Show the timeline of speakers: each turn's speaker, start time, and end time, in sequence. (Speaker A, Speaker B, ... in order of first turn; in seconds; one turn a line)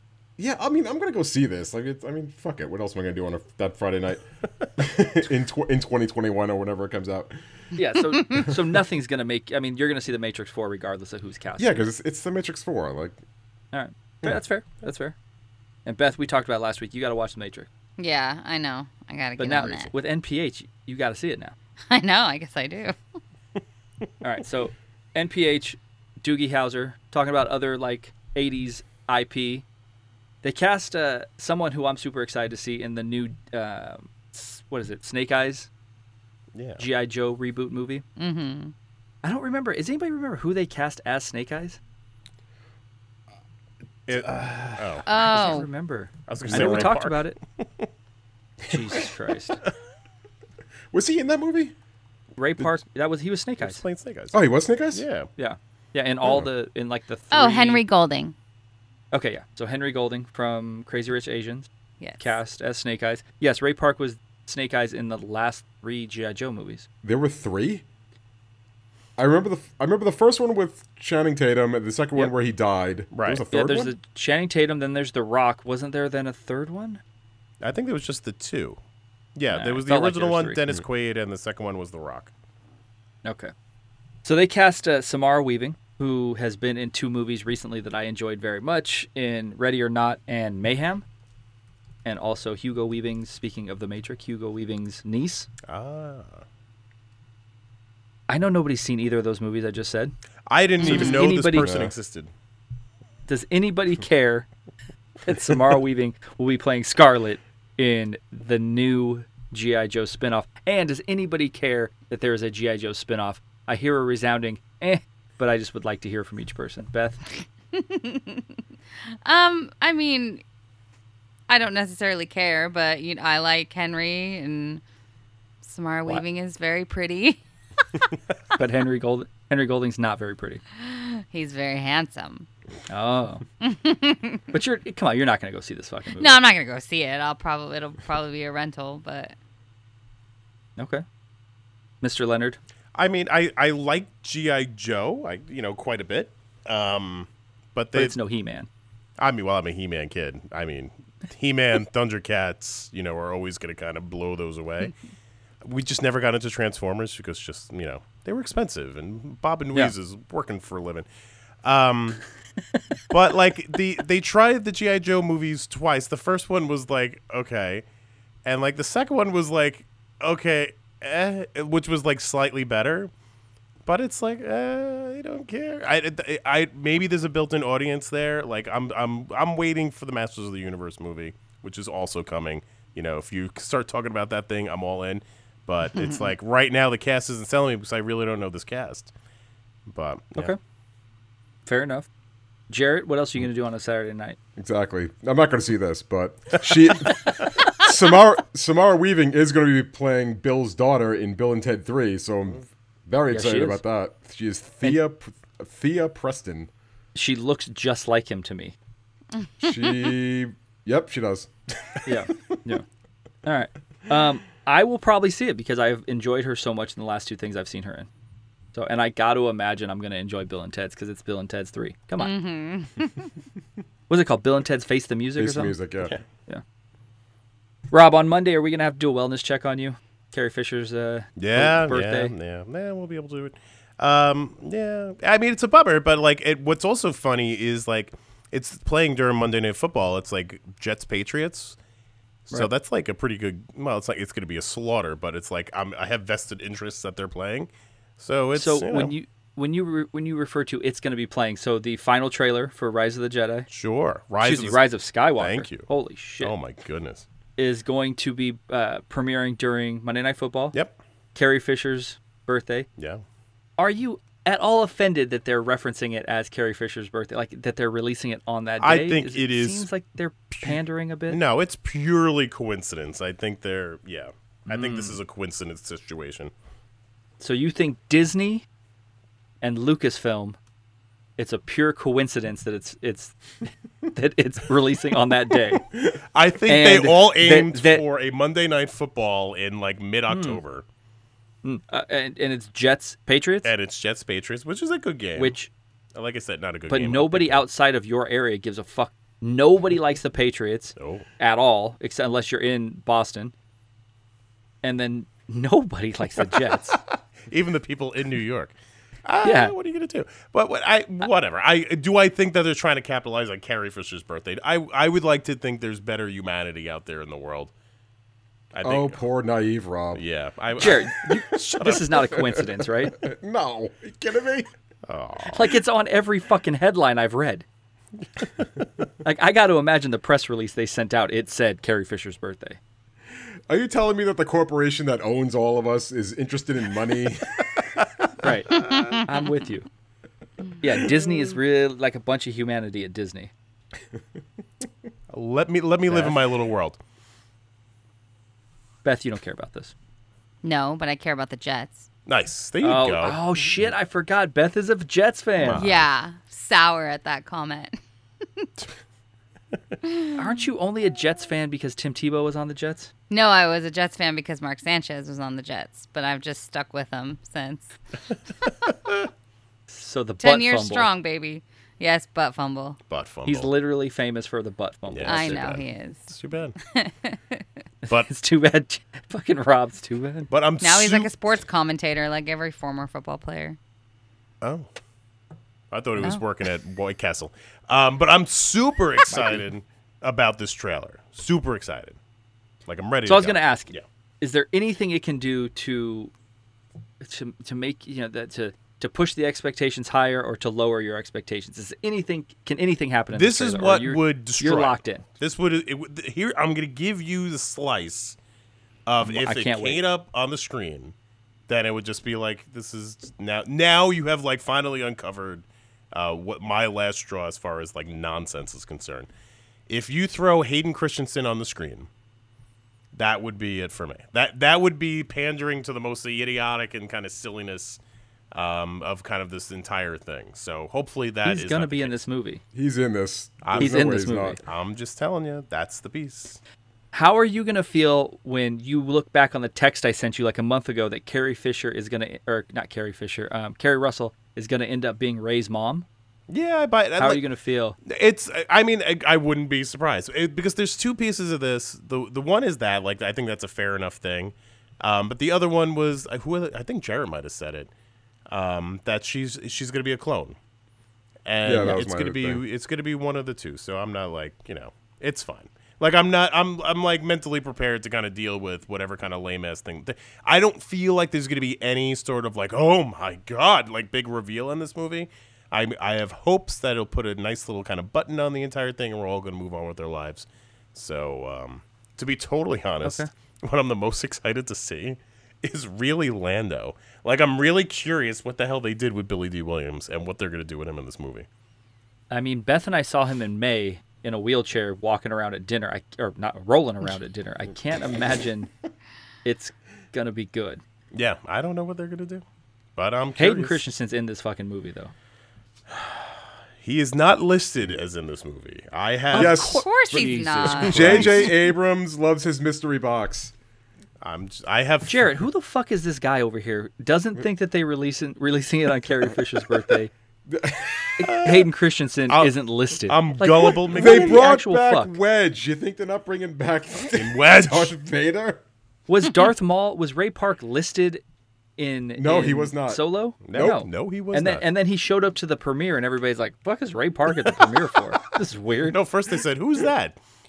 Speaker A: 0.4-4.2
Speaker A: 4.8-7.4
Speaker B: 7.8-11.9
Speaker C: 8.2-8.5
Speaker A: 11.6-13.2
Speaker B: 13.7-15.1
Speaker B: 15.8-17.7
Speaker C: 18.0-19.9
Speaker B: 19.4-21.5
Speaker C: 21.9-22.9
Speaker B: 24.2-29.6
Speaker B: 30.4-35.7
Speaker D: 36.5-36.8
Speaker B: 36.8-38.0
Speaker C: 38.2-38.7
Speaker B: 39.2-41.8
Speaker D: 44.1-45.1
Speaker A: 44.1-44.5
Speaker B: 44.3-47.4
Speaker C: 45.0-45.7
Speaker D: 46.3-47.9
Speaker A: 46.5-46.9
Speaker B: 48.7-49.6
Speaker A: 50.9-51.7
Speaker B: 52.4-53.8
Speaker D: 53.6-54.4
Speaker A: 54.3-55.0
Speaker D: 54.9-55.3
Speaker B: 55.4-57.8
Speaker C: 57.3-58.3
Speaker B: 59.1-66.9
Speaker C: 62.0-62.4
Speaker A: 67.0-67.8
Speaker A: 69.2-73.9
Speaker D: 73.1-73.5
Speaker B: 73.5-77.0
Speaker D: 77.6-78.8
Speaker D: 79.3-82.3
Speaker B: 79.5-80.6
Speaker B: 83.2-83.5
Speaker B: 84.2-91.0
Speaker B: 92.0-95.5
Speaker D: 95.7-96.4
Speaker B: 98.3-100.1
Speaker D: 100.5-102.3
Speaker C: 100.8-101.2
Speaker B: 100.8-101.7
Speaker A: 101.5-101.9
Speaker B: 103.3-104.5
Speaker B: 105.2-117.2
Speaker C: 117.7-118.5
Speaker C: 119.2-120.4
Speaker C: 121.5-124.8
Speaker C: 125.6-127.4
Speaker B: 128.6-130.6
Speaker C: 130.8-132.5
Speaker B: 132.9-133.4
Speaker C: 133.6-134.5
Speaker B: 134.5-136.4
Speaker C: 136.2-139.3
Speaker B: 140.8-141.0
Speaker B: 142.0-142.6
Speaker D: 142.9-148.2
Speaker B: 147.9-148.7
Speaker D: 149.2-154.9
Speaker D: 155.6-161.1
Speaker D: 161.6-162.2
Speaker D: 163.1-167.8
Speaker D: 168.4-173.1
Speaker D: 173.8-189.1
Speaker C: 185.9-186.2
Speaker D: 189.9-190.5
Speaker B: 191.7-192.1
Speaker B: 192.7-194.4
Speaker A: 194.6-206.7
Speaker B: 203.3-203.8
Speaker B: 207.1-208.7
Speaker A: 209.6-212.0
Speaker B: 212.0-212.8
Speaker B: 213.4-218.1
Speaker B: 218.7-222.3
Speaker C: 222.2-223.3
Speaker B: 224.1-225.8
Speaker A: 225.4-226.1
Speaker B: 227.9-232.3
Speaker D: 231.4-241.8
Speaker D: 242.5-249.1
Speaker B: 248.5-253.7
Speaker D: 253.7-255.9
Speaker B: 254.4-256.5
Speaker D: 256.4-257.2
Speaker B: 257.6-260.8
Speaker B: 261.3-262.9
Speaker D: 263.0-263.2
Speaker B: 263.8-271.4
Speaker D: 268.8-269.9
Speaker D: 271.3-276.5
Speaker B: 274.7-275.2
Speaker B: 277.4-278.6
Speaker B: 279.6-280.6
Speaker B: 281.4-283.4
Speaker B: 284.1-285.8
Speaker D: 286.3-290.8
Speaker B: 286.7-288.0
Speaker B: 290.3-290.6
Speaker B: 291.6-293.7
Speaker D: 293.6-295.6
Speaker B: 295.4-295.7
Speaker D: 296.1-297.6
Speaker B: 296.9-303.5
Speaker D: 301.0-301.3
Speaker B: 304.8-307.0
Speaker D: 307.5-317.7
Speaker B: 309.4-309.7
Speaker D: 318.7-319.2
Speaker A: 318.8-320.2
Speaker D: 320.1-322.3
Speaker B: 320.8-323.2
Speaker A: 321.5-324.7
Speaker D: 325.1-325.7
Speaker B: 325.5-327.6
Speaker B: 329.2-332.8
Speaker A: 333.7-337.9
Speaker B: 338.4-339.9
Speaker D: 338.7-339.2
Speaker B: 340.8-343.5
Speaker D: 345.3-347.0
Speaker B: 346.1-346.4
Speaker B: 349.0-349.9
Speaker C: 350.6-352.1
Speaker D: 352.2-353.4
Speaker B: 352.8-355.8
Speaker D: 355.6-356.1
Speaker C: 355.7-358.0
Speaker C: 360.0-360.4
Speaker B: 360.4-363.1
Speaker C: 363.3-367.9
Speaker B: 369.9-371.1
Speaker C: 370.4-373.0
Speaker D: 373.1-373.7
Speaker B: 373.4-375.8
Speaker D: 375.1-376.8
Speaker C: 375.2-377.6
Speaker B: 378.0-380.5
Speaker D: 380.5-381.3
Speaker C: 380.8-383.8
Speaker D: 384.6-384.9
Speaker D: 385.9-392.2
Speaker B: 389.3-389.6
Speaker D: 392.9-394.0
Speaker B: 393.2-396.3
Speaker B: 397.2-405.2
Speaker D: 403.3-408.4
Speaker D: 409.1-411.1
Speaker B: 409.2-410.0
Speaker D: 411.7-419.3
Speaker D: 419.9-422.1
Speaker D: 423.1-428.0
Speaker D: 428.5-432.1
Speaker B: 431.4-432.6
Speaker A: 432.7-434.6
Speaker D: 433.6-436.6
Speaker B: 433.8-434.6
Speaker B: 437.1-446.1
Speaker D: 446.5-447.4
Speaker B: 447.2-448.0
Speaker D: 448.1-457.9
Speaker D: 458.5-460.6
Speaker D: 461.4-491.5
Speaker A: 461.6-462.6
Speaker B: 483.0-483.3
Speaker B: 492.3-498.7
Speaker B: 499.4-500.8
Speaker D: 501.1-502.4
Speaker D: 502.9-503.8
Speaker B: 503.4-505.1
Speaker D: 505.9-511.6
Speaker B: 509.3-511.5
Speaker A: 509.3-509.9
Speaker C: 509.7-511.2
Speaker A: 510.8-513.5
Speaker D: 514.2-515.3
Speaker B: 515.0-520.1
Speaker A: 520.5-521.3
Speaker B: 521.2-525.1
Speaker D: 521.2-521.7
Speaker D: 522.3-524.4
Speaker A: 523.9-528.6
Speaker D: 527.1-527.9
Speaker B: 529.1-531.2
Speaker B: 531.8-539.0
Speaker A: 532.2-533.8
Speaker D: 533.5-534.6
Speaker D: 538.9-540.2